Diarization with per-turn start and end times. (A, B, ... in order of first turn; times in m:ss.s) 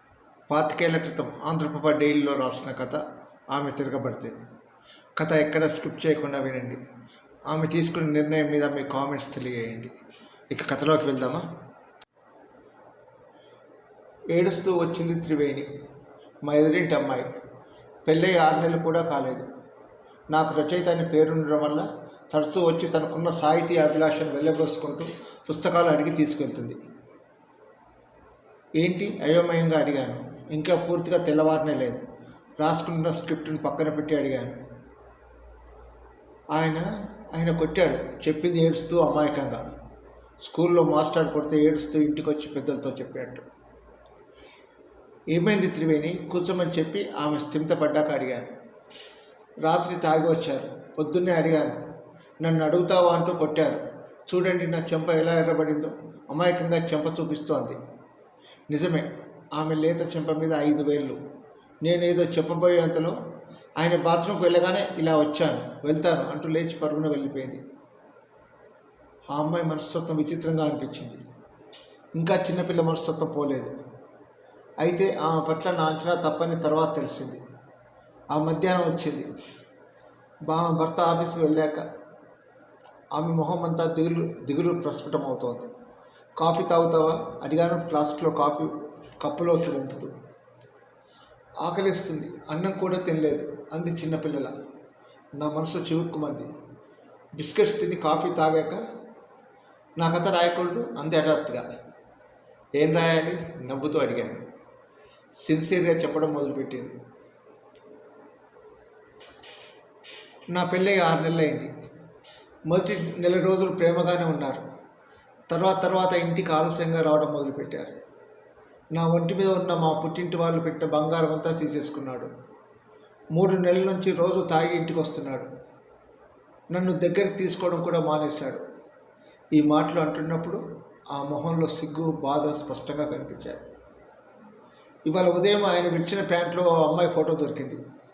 0:00.5-0:04.3 A
0:05.2-0:06.8 A
0:07.5-0:09.9 A
0:10.5-0:11.4 A
0:14.3-0:15.7 A
0:16.4-0:17.3 A
0:18.0-0:19.4 A
0:20.3-0:26.8 A
0:28.8-0:32.0 A
0:32.6-0:34.6 A
0:36.5-0:39.6 A
0:40.4-0:43.4 A
0:45.3-0:48.5 A
0:49.6-0:51.8 A
0:52.4-0:57.8 A
0:58.7-1:01.2 A
1:01.8-1:03.2 A
1:03.8-1:07.6 A
1:09.3-1:11.2 A
1:12.1-1:13.7 A
1:14.8-1:17.4 A
1:18.3-1:19.3 A
1:20.4-1:21.8 A
1:23.1-1:25.7 A
1:26.4-1:30.1 A
1:31.6-1:34.5 A
1:35.4-1:36.5 A
1:37.4-1:38.8 A
1:40.0-1:41.6 A
1:42.8-1:44.4 A
1:45.4-1:46.9 A
1:50.5-1:51.7 A
1:52.7-1:54.6 A
1:55.5-1:58.0 A
1:58.9-2:02.3 A
2:03.3-2:05.5 A
2:06.7-2:08.6 A
2:09.5-2:10.6 A
2:11.1-2:13.6 A
2:15.0-2:17.8 A